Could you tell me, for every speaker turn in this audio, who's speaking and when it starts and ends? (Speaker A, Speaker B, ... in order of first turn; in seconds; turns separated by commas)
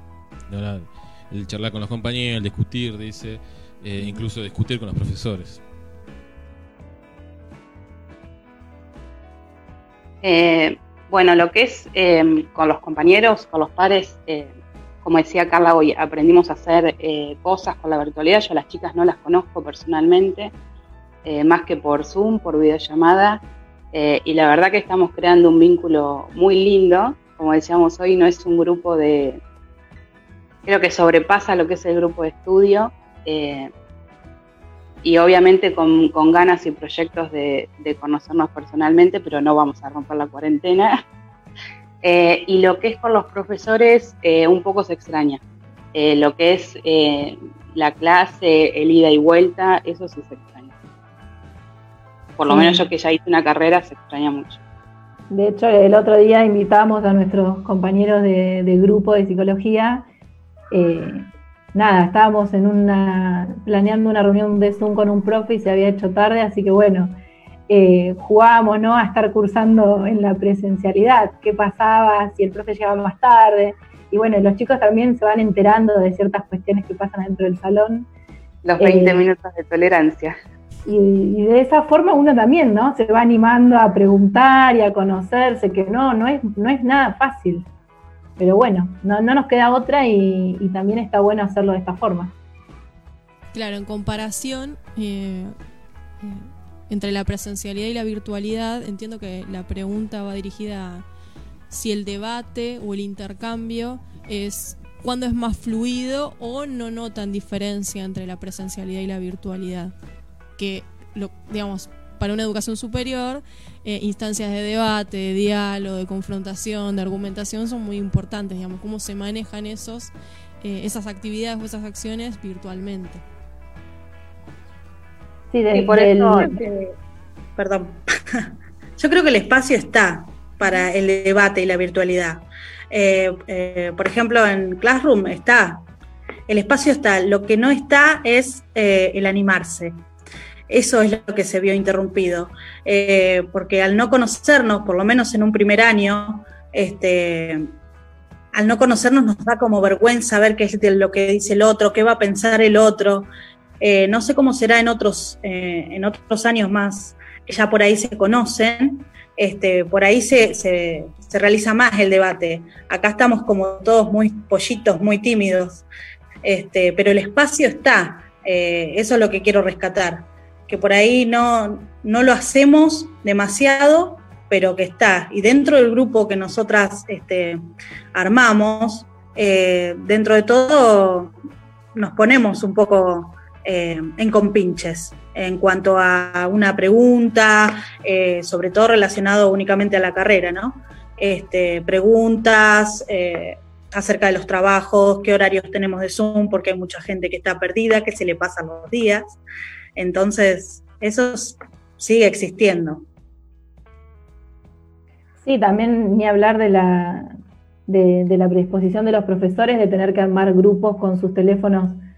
Speaker A: 0.5-5.6, Speaker B: 10.2-20.5, Speaker B: 21.2-23.4, Speaker B: 23.9-29.4, Speaker B: 30.7-33.7, Speaker B: 35.0-41.0, Speaker B: 42.0-45.4, Speaker B: 45.9-50.7, Speaker B: 52.4-54.6, Speaker C: 52.5-52.9, Speaker C: 55.3-60.1, Speaker C: 60.7-67.2, Speaker C: 67.7-78.1, Speaker B: 78.6-80.3, Speaker C: 78.8-79.2, Speaker C: 80.9-87.7, Speaker C: 88.4-92.3, Speaker D: 93.5-95.6, Speaker D: 96.2-101.0, Speaker D: 101.7-109.9, Speaker D: 110.6-123.2, Speaker C: 125.5-126.5, Speaker B: 125.7-126.6, Speaker E: 127.6-135.8, Speaker E: 136.5-140.0, Speaker E: 140.7-147.7, Speaker E: 148.5-153.3, Speaker E: 153.8-165.8, Speaker E: 166.4-177.6, Speaker E: 178.1-181.3, Speaker E: 181.9-199.4, Speaker E: 200.0-203.1, Speaker C: 205.4-207.3, Speaker C: 207.9-212.0